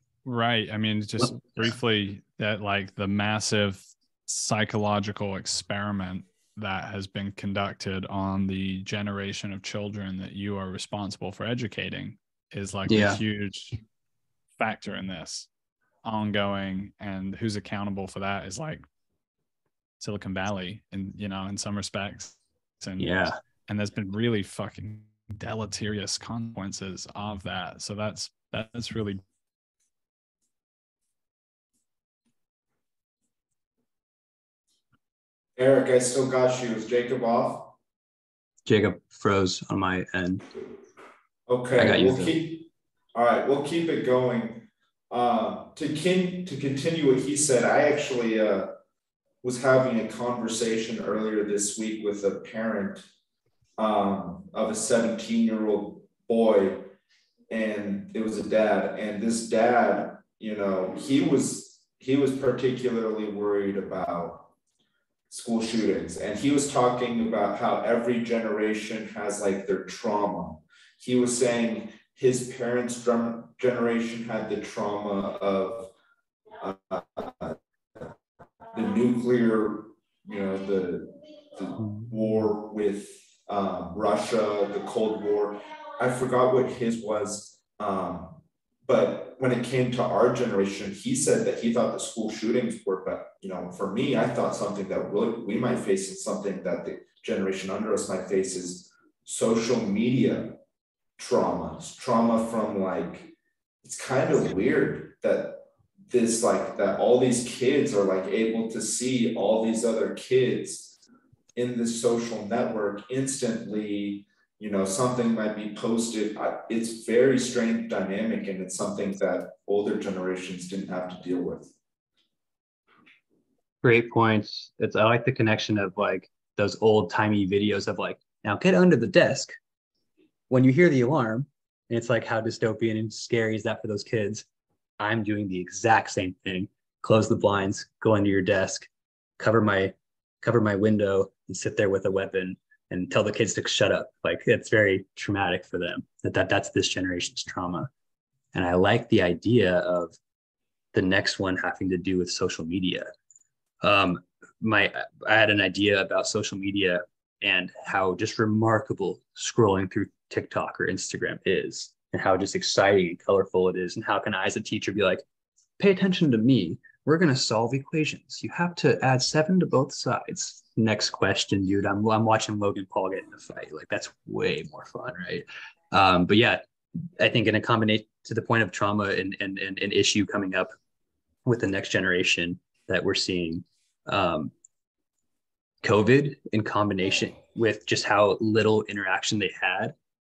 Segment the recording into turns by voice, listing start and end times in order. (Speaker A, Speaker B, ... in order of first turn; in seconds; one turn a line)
Speaker A: 0.2-13.8
Speaker B: 12.9-13.2
Speaker A: 14.6-15.5
Speaker A: 16.0-18.8
Speaker A: 20.0-29.2
Speaker B: 23.0-23.3
Speaker C: 35.6-37.8
Speaker B: 38.6-40.4
Speaker C: 41.5-48.7
Speaker B: 41.8-42.3
Speaker C: 49.4-53.0
Speaker C: 53.8-56.9
Speaker C: 57.5-64.5
Speaker C: 65.3-75.9
Speaker C: 76.6-78.1
Speaker C: 78.7-100.6
Speaker C: 101.2-103.3
Speaker C: 103.8-111.0
Speaker C: 111.5-121.7
Speaker B: 123.8-129.5
Speaker B: 130.5-134.4
Speaker B: 135.0-138.9
Speaker B: 139.4-147.9
Speaker B: 148.5-150.2
Speaker B: 150.9-153.1
Speaker B: 153.8-165.2
Speaker B: 165.8-176.6
Speaker B: 177.2-180.7
Speaker B: 181.4-184.5
Speaker B: 185.8-189.9